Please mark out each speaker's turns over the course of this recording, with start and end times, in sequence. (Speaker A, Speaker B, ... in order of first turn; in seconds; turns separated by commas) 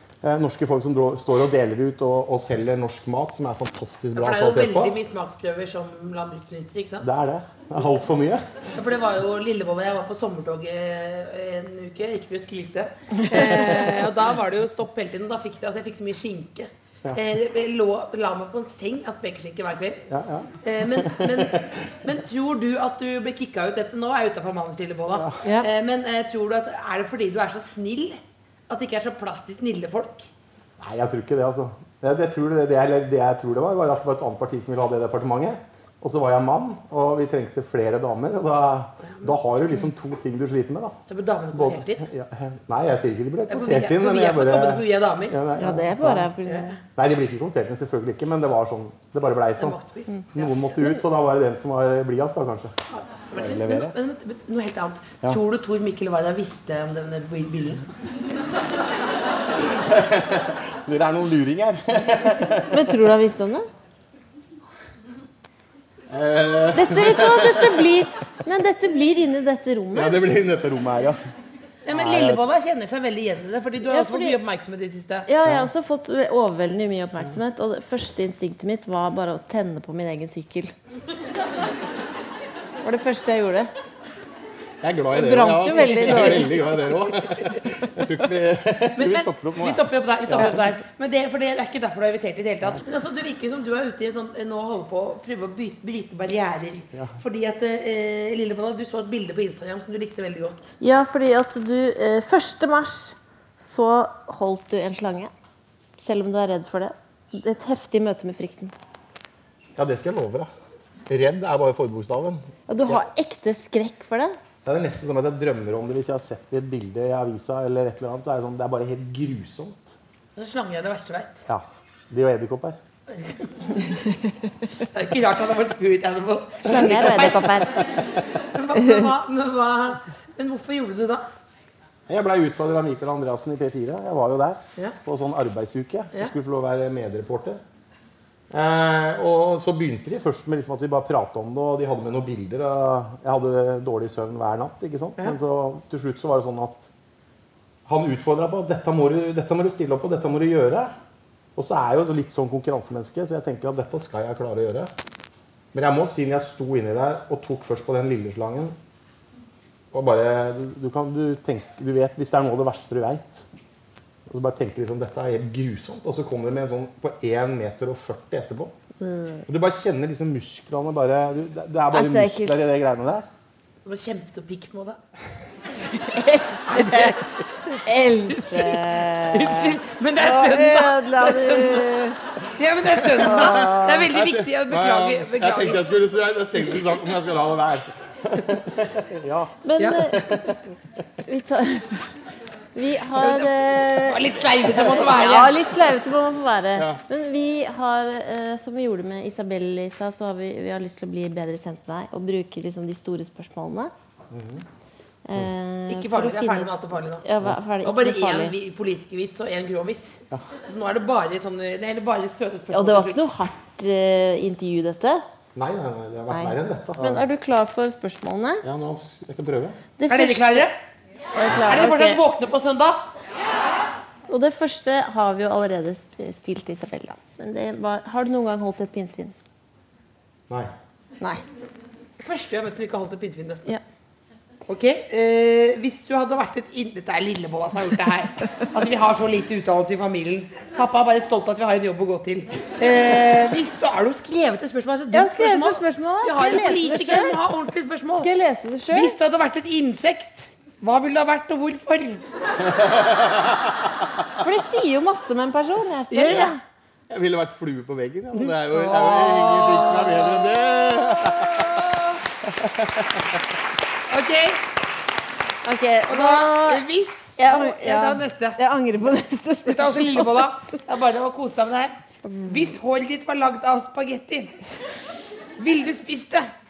Speaker A: 0.2-4.9, Speaker B: 4.1-7.1, Speaker A: 7.0-8.4, Speaker B: 8.7-20.1, Speaker A: 20.1-21.5, Speaker B: 20.6-30.3, Speaker A: 25.1-25.4, Speaker A: 30.8-41.0, Speaker B: 39.0-39.4, Speaker B: 41.1-42.0, Speaker A: 41.5-46.3, Speaker B: 43.5-45.4, Speaker C: 45.6-46.8, Speaker B: 46.4-46.7, Speaker A: 46.9-49.8, Speaker B: 49.6-50.8, Speaker A: 50.3-52.8, Speaker B: 52.9-57.8, Speaker A: 53.4-53.9, Speaker A: 59.6-62.8, Speaker C: 62.7-63.7, Speaker A: 66.1-67.8, Speaker C: 66.7-70.2, Speaker A: 69.9-71.2, Speaker B: 71.8-75.3, Speaker A: 71.9-72.4, Speaker C: 73.8-74.4, Speaker C: 75.3-80.7, Speaker C: 82.8-83.7, Speaker A: 84.8-90.6, Speaker C: 85.1-86.6, Speaker B: 85.7-87.0, Speaker B: 89.0-100.8, Speaker C: 100.8-105.3, Speaker C: 106.0-108.7, Speaker A: 109.8-110.5, Speaker A: 111.1-113.0, Speaker C: 112.7-114.4, Speaker A: 114.6-120.0, Speaker B: 120.4-121.4, Speaker A: 121.5-122.8, Speaker B: 123.1-123.4, Speaker B: 124.9-127.6, Speaker C: 126.7-127.8, Speaker B: 128.5-131.3, Speaker C: 128.8-129.1, Speaker A: 132.1-137.6, Speaker A: 138.5-146.9, Speaker A: 147.9-150.9, Speaker A: 151.6-154.9, Speaker A: 155.7-158.8, Speaker A: 159.9-163.5, Speaker A: 164.3-168.7, Speaker C: 169.0-169.4, Speaker A: 169.5-173.3, Speaker C: 171.9-172.7, Speaker B: 173.8-175.0, Speaker C: 175.8-182.2, Speaker B: 176.7-177.3, Speaker B: 178.3-181.9, Speaker B: 182.6-185.9, Speaker A: 183.2-189.6, Speaker C: 183.3-183.9, Speaker C: 189.6-190.3, Speaker B: 189.8-190.1, Speaker A: 190.1-190.6, Speaker C: 191.3-192.1, Speaker C: 192.7-203.9, Speaker B: 193.2-195.6, Speaker A: 196.8-197.0, Speaker A: 204.3-204.6, Speaker C: 205.3-208.5, Speaker B: 205.9-207.3, Speaker B: 207.8-213.3, Speaker C: 212.7-215.2, Speaker A: 215.6-217.3, Speaker C: 216.3-218.6, Speaker A: 218.6-219.8, Speaker C: 220.0-220.7, Speaker B: 220.1-220.8, Speaker C: 221.3-222.2, Speaker B: 221.6-223.1, Speaker C: 224.3-229.3, Speaker B: 232.2-233.7, Speaker B: 234.7-248.3, Speaker C: 245.1-247.4, Speaker C: 248.1-249.2, Speaker B: 248.9-252.2, Speaker A: 252.6-253.7, Speaker C: 254.4-256.6, Speaker B: 256.1-256.6, Speaker A: 257.1-261.9, Speaker B: 258.4-260.5, Speaker A: 262.4-263.4, Speaker B: 264.1-264.6, Speaker C: 265.6-266.8, Speaker B: 266.1-268.6, Speaker C: 267.4-270.8, Speaker B: 269.7-274.6, Speaker C: 272.2-272.7, Speaker B: 275.6-276.5